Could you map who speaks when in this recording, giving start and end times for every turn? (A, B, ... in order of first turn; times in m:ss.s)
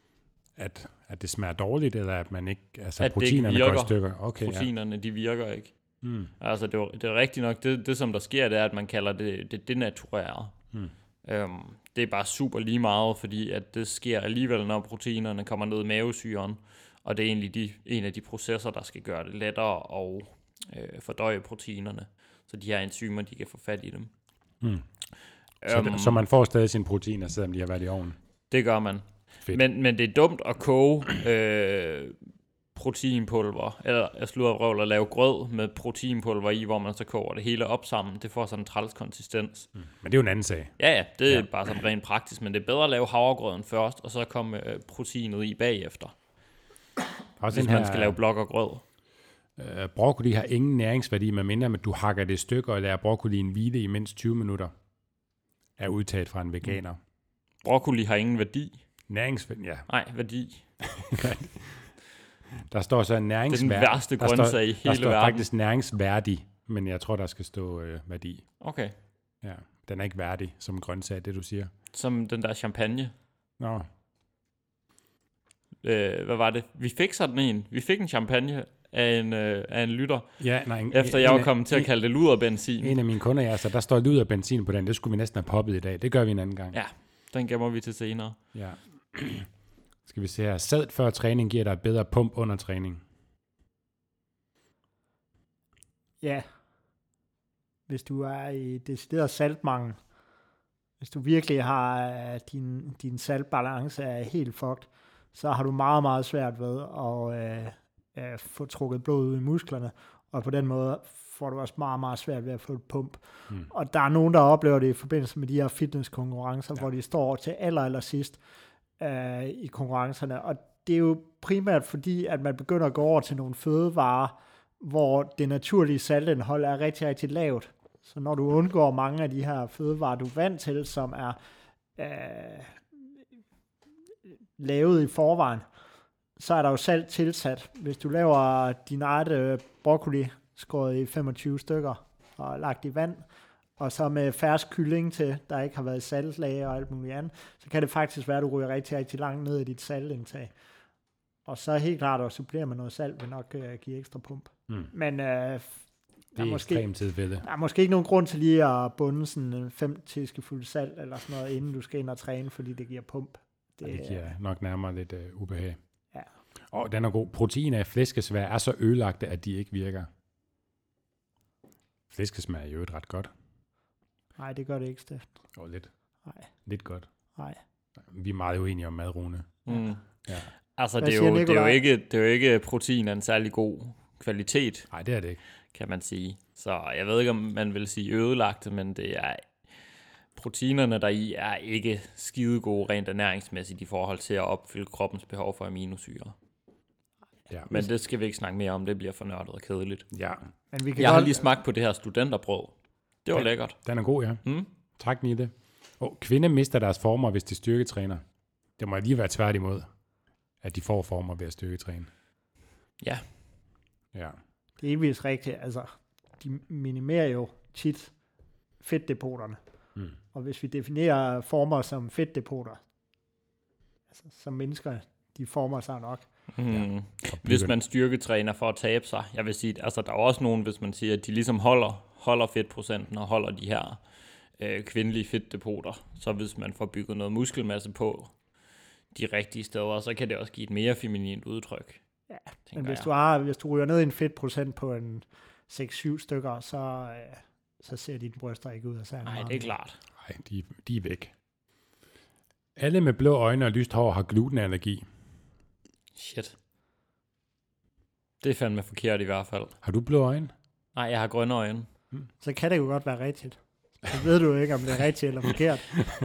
0:00.6-0:04.7 A
0:03.0-0:05.7 B
0:06.0-0:06.3 A
0:06.4-0:10.5 B
0:11.2-0:24.1 B
0:25.6-0:26.2 B
0:25.6-0:28.2 A
0:28.5-0:32.2 B
0:32.7-0:39.7 B
0:39.8-0:40.7 A
0:40.8-0:46.1 B
0:47.4-0:48.2 A
0:47.5-0:48.8 B
0:49.6-0:54.7 A
0:55.8-0:57.0 A
0:57.6-0:58.8 B
0:59.1-0:59.8 A
0:59.9-1:00.6 B
1:01.0-1:01.9 A
1:02.7-1:08.4 A
1:03.5-1:05.4 B
1:08.6-1:08.9 B
1:09.4-1:11.7 A
1:11.9-1:13.1 B
1:13.6-1:13.8 A
1:15.8-1:20.3 B
1:20.4-1:21.9 A
1:20.9-1:23.0 B
1:22.8-1:26.8 A
1:26.7-1:28.4 B
1:28.5-1:29.5 A
1:30.0-1:33.0 A
1:37.9-1:40.0 C
1:41.0-1:58.4 C
1:59.0-2:11.4 C
2:12.0-2:12.8 C
2:14.6-2:15.6 C
2:16.4-2:23.2 C
2:23.8-2:30.5 C
2:31.4-2:35.8 C
2:36.3-2:36.8 C
2:36.4-2:37.4 A
2:37.4-2:44.3 C
2:43.8-2:45.8 A
2:46.7-2:50.1 A
2:52.1-2:53.3 A
2:54.4-2:55.3 C
2:55.6-2:55.9 A
2:56.6-2:57.0 A
2:58.0-2:59.5 A
2:59.6-3:00.0 B
3:00.8-3:04.9 B
3:01.0-3:01.8 C
3:04.9-3:05.4 A
3:05.7-3:09.4 B
3:10.3-3:16.3 B
3:17.5-3:17.8 A
3:17.7-3:20.0 B
3:20.1-3:20.4 A
3:20.7-3:21.4 C
3:21.0-3:22.7 B
3:23.2-3:23.8 B
3:23.3-3:24.4 A
3:24.4-3:24.7 B
3:25.0-3:28.2 A
3:28.8-3:29.9 A
3:30.6-3:32.1 A
3:34.8-3:38.1 C
3:38.8-3:39.6 C
3:40.3-3:42.8 C
3:44.2-3:46.2 C
3:46.5-3:54.0 B
3:46.7-3:47.7 A
3:54.6-3:58.3 B
3:59.1-4:02.0 B
4:02.3-4:09.7 C
4:02.7-4:03.1 B
4:09.2-4:10.0 B
4:10.2-4:11.3 A
4:12.8-4:15.0 A
4:16.2-4:16.5 B
4:18.4-4:19.7 B
4:19.8-4:20.5 A
4:20.9-4:21.9 B
4:22.4-4:26.0 C